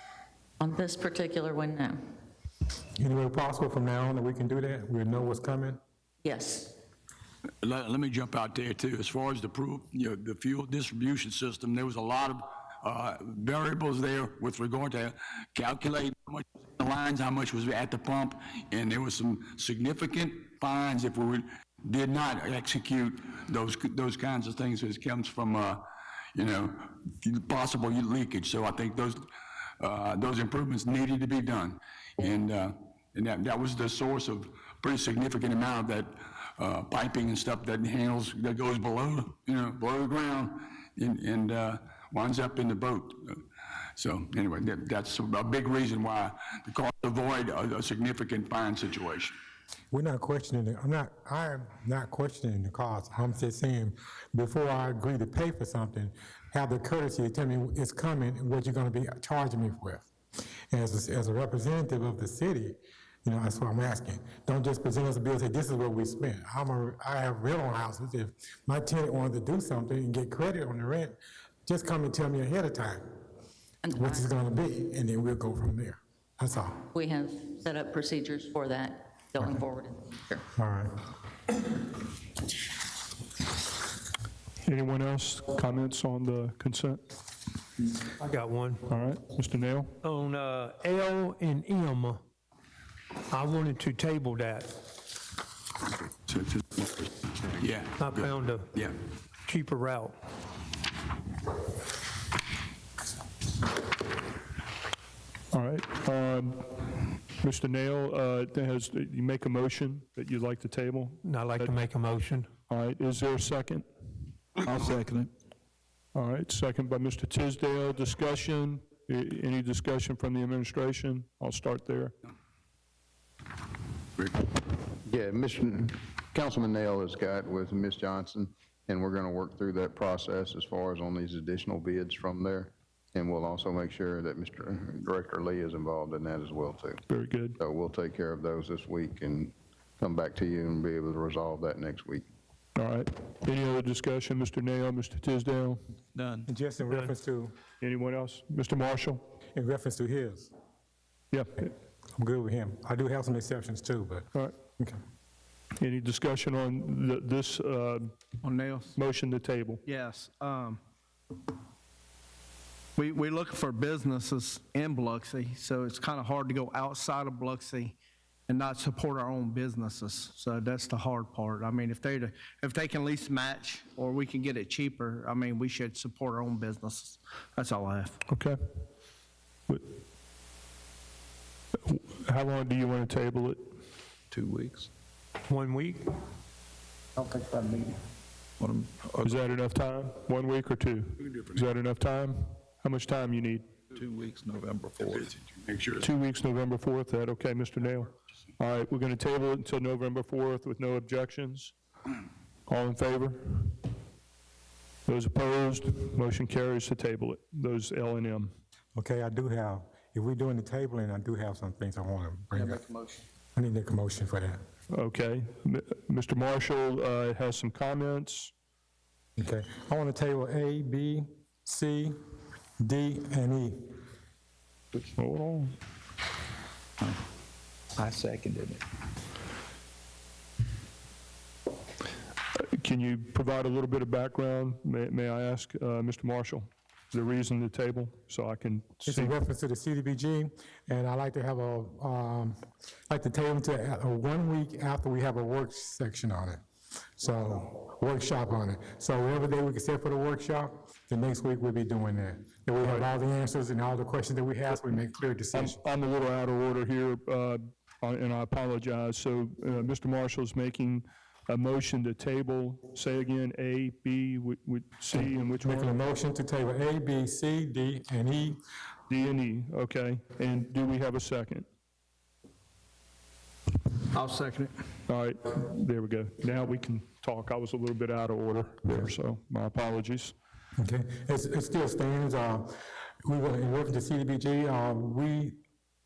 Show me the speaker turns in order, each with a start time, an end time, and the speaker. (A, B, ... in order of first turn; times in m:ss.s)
0:00.6-0:02.0 A
0:03.0-0:05.8 B
0:06.2-0:06.8 A
0:07.6-0:25.8 C
0:26.3-0:29.2 C
0:29.8-0:43.4 C
0:44.0-0:49.4 C
0:49.9-1:00.1 B
1:00.7-1:13.1 B
1:13.8-1:14.2 A
1:13.9-1:16.9 B
1:16.9-1:20.4 A
1:20.6-1:20.9 B
1:24.6-1:27.0 D
1:28.2-1:28.8 E
1:28.9-1:29.9 D
1:30.0-1:32.2 E
1:33.3-1:34.8 E
1:36.3-1:36.8 C
1:37.6-1:38.9 C
1:38.0-1:38.7 E
1:39.4-1:40.2 E
1:45.5-1:46.8 D
1:47.3-1:51.9 D
1:51.2-1:52.5 E
1:52.7-1:53.9 D
1:56.1-2:02.1 D
2:05.0-2:17.0 F
2:17.1-2:17.6 D
2:17.6-2:22.3 F
2:22.8-2:25.8 D
2:26.5-2:27.5 B
2:27.8-2:29.2 D
2:29.6-2:30.5 B
2:31.3-2:31.7 D
2:32.2-2:35.0 B
2:35.8-2:38.1 D
2:38.4-2:38.9 G
2:39.0-2:39.8 D
2:39.8-2:40.8 G
2:43.0-2:58.2 G
2:58.3-2:58.6 D
2:59.7-3:00.0 D
3:01.8-3:03.8 D
3:04.3-3:04.9 H
3:05.5-3:06.2 E
3:07.2-3:07.9 G
3:08.6-3:09.3 H
3:09.2-3:13.7 D
3:13.9-3:15.3 H
3:15.1-3:16.0 C
3:16.0-3:21.8 D
3:22.7-3:23.8 D
3:25.1-3:28.5 D
3:29.0-3:32.8 B
3:32.6-3:33.2 G
3:33.6-3:34.6 B
3:34.9-3:38.5 D
3:39.4-3:42.2 B
3:42.8-3:44.0 B
3:45.2-3:45.7 D
3:48.0-3:48.8 H
3:52.6-3:59.4 D
3:59.1-4:02.6 B
4:03.1-4:06.6 B
4:07.2-4:15.8 B
4:12.8-4:13.1 D
4:15.5-4:26.0 D
4:25.1-4:28.6 B
4:29.1-4:31.7 D
4:34.1-4:34.7 G
4:35.1-4:40.4 D
4:40.8-4:45.6 B